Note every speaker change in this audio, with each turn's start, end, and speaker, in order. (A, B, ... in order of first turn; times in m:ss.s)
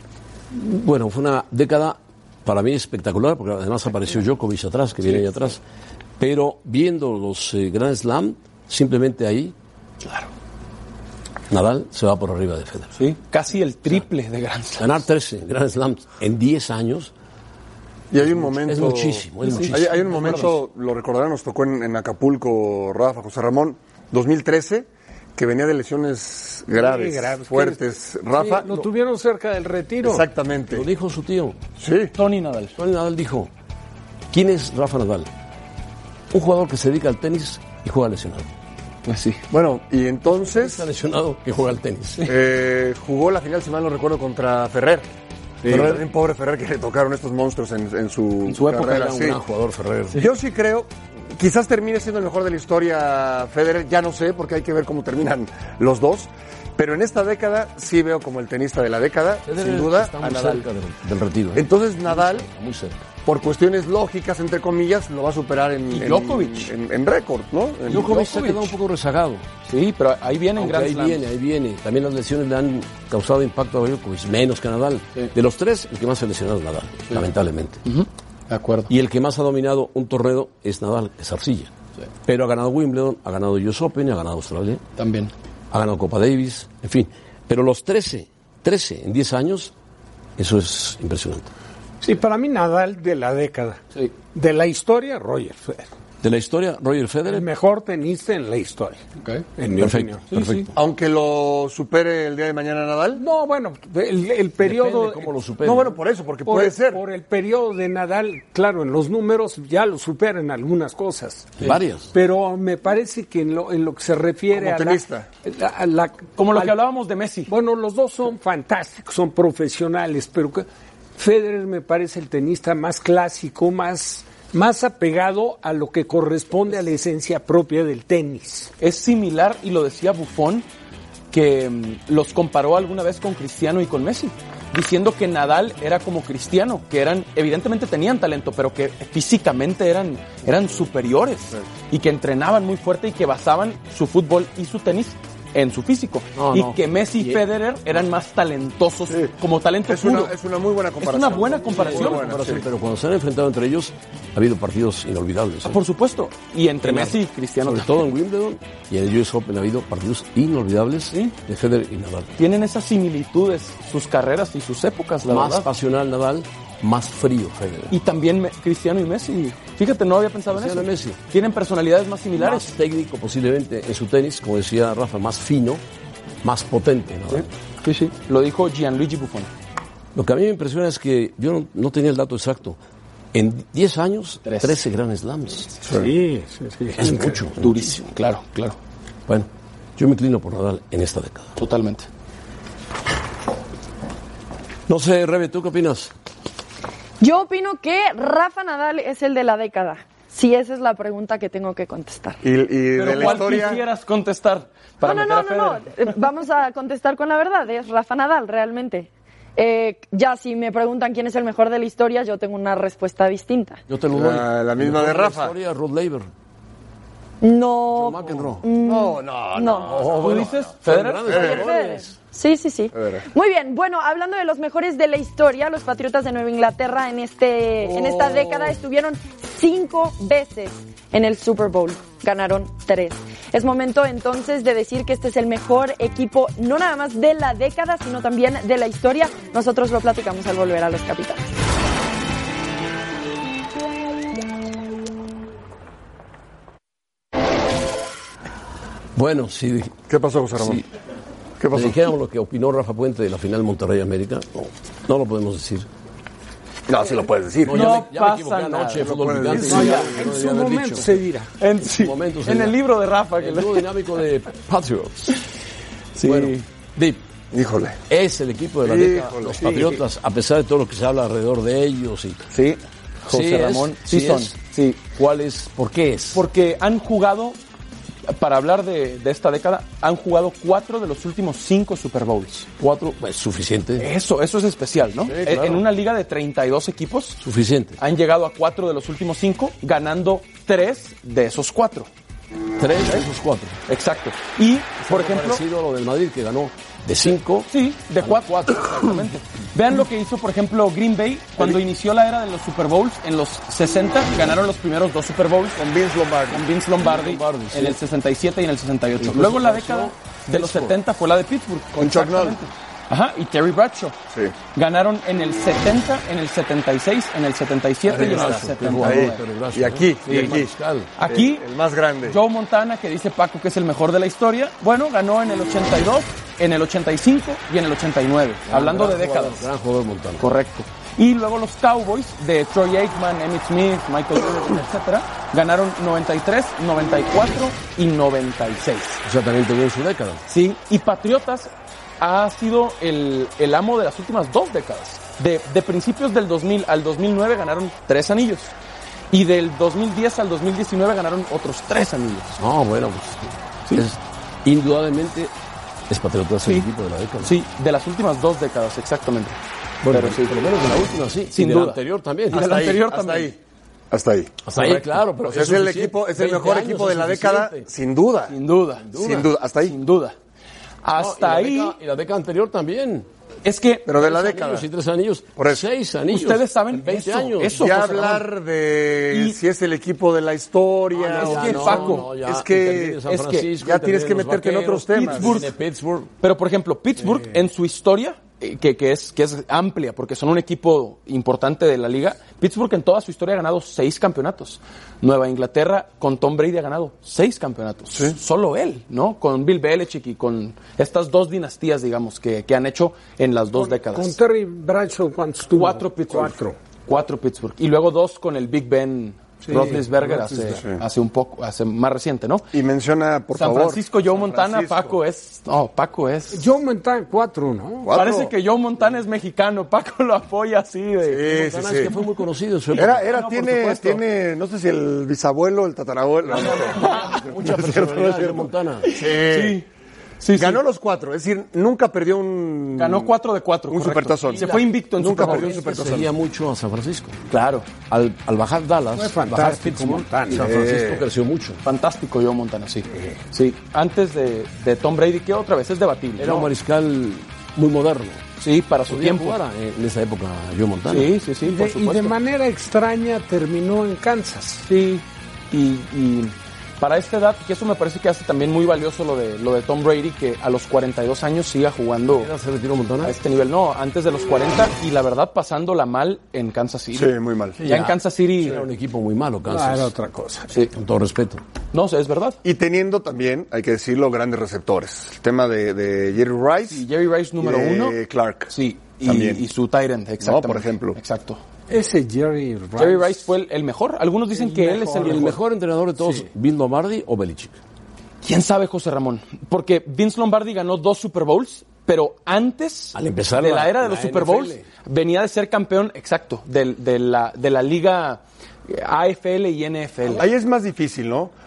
0:00.5-0:05.6 A
0:06.2-0:09.6 A
0:10.0-0:10.3 B
0:11.5-0:13.0 A
0:13.0-0:15.0 B
0:14.8-0:17.1 A
0:18.1-0:28.8 C
0:18.3-0:20.5 A
0:19.4-0:20.5 B
0:26.7-0:27.8 D
0:28.4-0:30.2 D
0:30.0-0:30.9 C
0:30.7-0:31.6 A
0:31.8-0:32.1 C
0:32.1-0:32.8 B
0:32.8-0:33.5 A
0:34.3-0:35.3 A
0:36.3-0:38.5 A
0:39.0-0:39.4 B
0:39.5-0:40.8 C
0:40.4-0:42.3 A
0:42.3-0:45.1 C
0:45.6-0:46.0 A
0:45.7-0:49.4 C
0:48.5-0:49.0 B
0:48.7-0:50.3 A
0:50.2-1:00.6 C
0:59.4-1:03.0 A
1:01.6-1:02.4 C
1:03.2-1:08.2 C
1:05.9-1:06.7 B
1:07.9-1:09.5 A
1:07.9-1:08.7 B
1:09.7-1:11.2 B
1:10.6-1:17.8 A
1:17.9-1:18.9 B
1:18.9-1:21.7 A
1:22.3-1:24.8 A
1:25.0-1:25.3 B
1:25.7-1:29.7 A
1:30.4-1:31.5 A
1:32.0-1:33.8 D
1:34.3-1:35.9 D
1:36.2-1:37.5 A
1:37.3-1:39.0 D
1:39.6-1:40.3 D
1:39.8-1:40.7 A
1:40.3-1:40.7 B
1:40.8-1:43.2 C
1:43.2-1:45.3 D
1:44.6-1:46.0 A
1:45.6-1:47.0 C
1:46.4-1:56.8 D
1:51.6-1:52.1 A
1:54.5-1:55.3 C
1:56.4-1:57.5 B
1:57.5-2:00.6 D
2:01.2-2:08.7 D
2:08.8-2:10.6 B
2:11.3-2:30.3 B
2:26.4-2:27.4 A
2:29.9-2:32.6 C
2:31.0-2:32.4 B
2:31.7-2:35.8 A
2:35.6-2:38.1 B
2:36.8-2:42.3 A
2:42.4-2:45.7 B
2:45.2-2:48.0 A
2:47.9-2:52.7 B
2:50.5-2:51.2 A
2:52.4-2:55.8 A
2:56.4-2:57.5 A
2:57.3-2:59.5 B
3:00.1-3:02.8 A
3:03.3-3:05.7 A
3:04.4-3:04.8 B
3:05.9-3:06.1 C
3:05.9-3:07.3 D
3:07.0-3:08.0 A
3:07.6-3:08.8 B
3:09.3-3:11.6 A
3:11.6-3:12.1 B
3:14.9-3:16.1 A
3:17.2-3:22.4 E
3:22.4-3:23.8 C
3:22.9-3:25.8 B
3:25.0-3:33.8 E
3:33.9-3:36.3 A
3:34.1-3:35.6 C
3:37.4-3:40.1 E
3:37.9-3:38.6 A
3:38.8-3:40.7 C
3:39.9-3:42.1 A
3:40.2-3:41.6 B
3:41.3-3:41.6 C
3:41.3-4:01.5 E
3:42.9-3:43.2 C
3:47.8-3:48.7 C
4:09.2-4:09.9 A
4:10.1-4:10.8 C
4:10.6-4:10.8 A
4:11.6-4:12.0 C
4:11.7-4:15.9 A
4:16.9-4:18.0 C
4:17.6-4:21.1 A
4:17.7-4:20.0 B
4:19.0-4:20.4 C
4:19.6-4:21.5 D
4:21.6-4:23.9 B
4:21.8-4:22.8 A
4:23.4-4:25.4 A
4:26.1-4:26.6 B
4:26.2-4:27.2 A
4:27.5-4:28.0 C
4:28.1-4:32.5 A
4:28.8-4:29.9 C
4:32.5-4:35.0 B
4:33.3-4:36.4 A
4:36.3-4:37.6 B
4:38.3-4:42.7 B
4:42.8-4:44.1 A
4:44.0-4:47.4 B
4:45.2-4:45.8 A
4:47.4-4:48.0 A
4:48.0-4:52.1 B
4:52.8-4:53.8 A
4:53.9-4:55.6 B
4:55.1-4:59.2 A
4:57.7-5:05.8 B
5:05.8-5:06.6 C
5:06.5-5:14.1 B
5:07.0-5:08.0 A
5:09.2-5:11.0 A
5:12.0-5:12.6 C
5:14.7-5:19.4 B
5:18.1-5:21.1 A
5:18.1-5:22.4 C
5:20.3-5:20.6 B
5:21.2-5:21.6 B
5:22.2-5:29.6 B
5:28.7-5:30.5 A
5:30.4-5:39.2 B
5:39.2-5:40.4 A
5:40.5-5:48.7 B
5:49.3-5:52.6 B
5:52.6-5:55.5 A
5:56.1-5:57.6 A
5:57.4-6:00.5 B
6:00.0-6:02.6 A
6:01.5-6:03.5 B
6:02.5-6:03.6 C
6:04.1-6:08.6 C
6:04.6-6:07.9 A
6:08.5-6:09.1 B
6:09.1-6:09.5 A
6:09.1-6:10.0 C
6:09.8-6:10.4 B
6:11.0-6:12.0 B
6:11.1-6:13.3 A
6:13.6-6:14.4 B
6:14.1-6:14.9 C
6:14.2-6:17.9 A
6:15.6-6:15.8 C
6:16.3-6:18.5 B
6:17.7-6:23.2 C
6:19.3-6:19.6 B
6:21.2-6:26.3 A
6:21.2-6:22.3 B
6:23.3-6:23.7 B
6:23.8-6:25.6 C
6:25.1-6:25.7 B
6:26.4-6:44.4 B
6:43.7-6:46.8 D
6:45.7-6:52.7 B
6:49.6-6:50.8 D
6:50.7-6:51.0 C
6:52.7-6:55.2 C
6:53.6-6:56.6 B
6:56.5-6:58.1 D
6:58.0-6:58.5 C
6:58.1-7:01.5 B
7:01.3-7:02.1 C
7:01.4-7:03.3 A
7:02.9-7:09.8 C
7:03.1-7:04.2 B
7:06.5-7:07.4 B
7:06.9-7:09.1 A
7:09.1-7:09.8 B
7:10.4-7:10.8 B
7:10.6-7:13.3 C
7:13.0-7:15.8 B
7:13.9-7:16.3 C
7:14.6-7:17.4 A
7:17.5-7:17.9 B
7:18.1-7:21.8 A
7:19.1-7:20.7 D
7:20.5-7:21.2 C
7:21.8-7:26.7 B
7:23.1-7:23.4 D
7:26.4-7:28.4 A
7:28.6-7:29.6 B
7:29.1-7:31.3 A
7:31.1-7:32.3 B
7:31.6-7:34.9 D
7:34.9-7:42.5 B
7:42.3-7:43.4 A
7:43.2-7:48.8 B
7:47.1-7:47.8 C
7:47.8-7:50.1 A
7:49.7-7:50.7 D
7:50.9-7:51.6 A
7:51.9-7:52.6 B
7:52.6-7:57.0 C
7:56.9-7:58.2 B
7:57.6-7:58.7 C
7:58.7-8:01.6 B
7:59.2-7:59.6 C
8:00.4-8:01.2 C
8:01.9-8:03.5 D
8:03.0-8:05.6 B
8:04.5-8:05.6 D
8:05.1-8:07.8 A
8:08.4-8:20.5 B
8:13.1-8:14.8 A
8:20.4-8:21.5 C